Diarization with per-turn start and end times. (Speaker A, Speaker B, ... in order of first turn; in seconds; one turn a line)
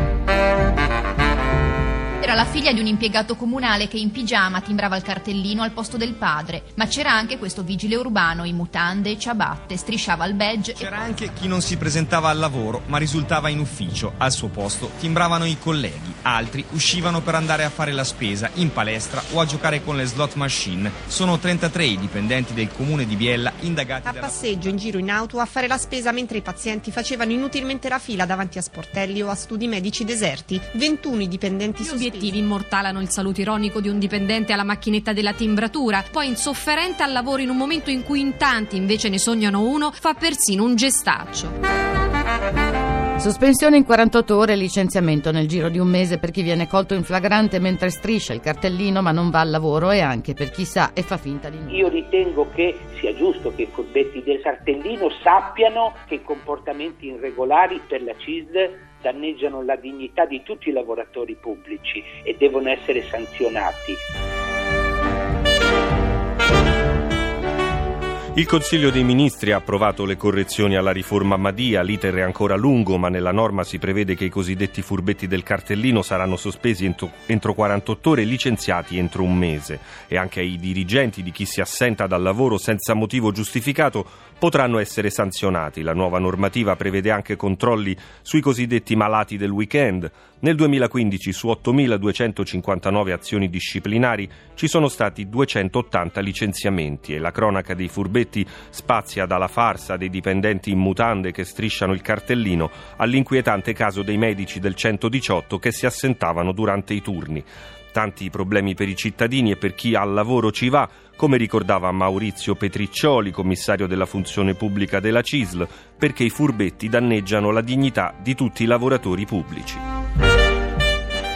Speaker A: 2.2-11.0
Speaker B: 10.8-24.8
Speaker C: 24.1-32.4
Speaker D: 31.8-41.5
Speaker E: 43.2-51.9
Speaker F: 51.7-64.0
Speaker G: 68.3-119.8